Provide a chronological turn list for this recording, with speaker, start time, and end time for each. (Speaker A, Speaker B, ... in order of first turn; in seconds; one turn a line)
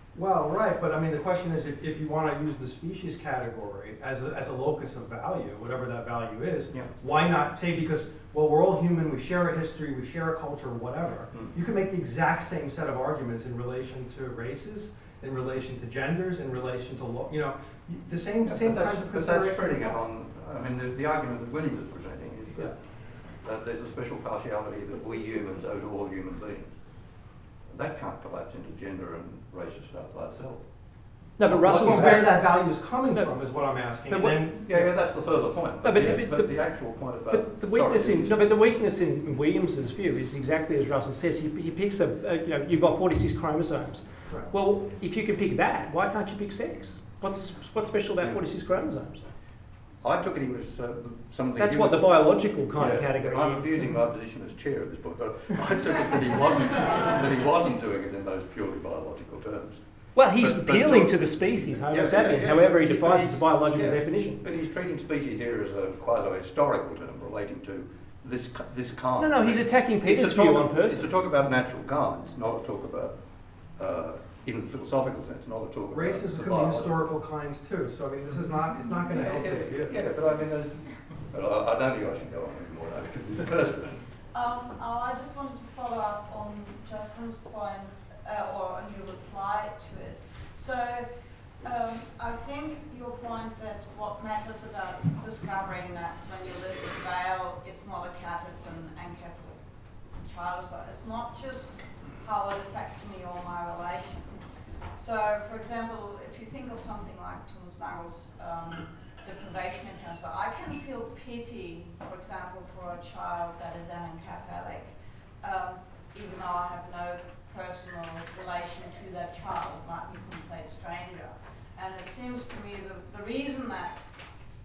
Speaker A: 0.1-20.0
Speaker B: 18.4-22.8
Speaker B: 23.4-26.7
Speaker B: 27.7-30.6
Speaker C: 31.4-32.5
Speaker B: 31.5-32.3
Speaker A: 31.6-34.8
Speaker C: 34.1-34.5
Speaker B: 34.6-38.5
Speaker C: 35.8-49.2
Speaker B: 50.0-52.1
Speaker C: 51.6-54.0
Speaker B: 52.7-77.0
Speaker C: 60.1-64.4
Speaker C: 69.2-71.3
Speaker A: 75.9-80.0
Speaker B: 79.1-84.0
Speaker D: 84.3-104.4
Speaker D: 104.9-124.0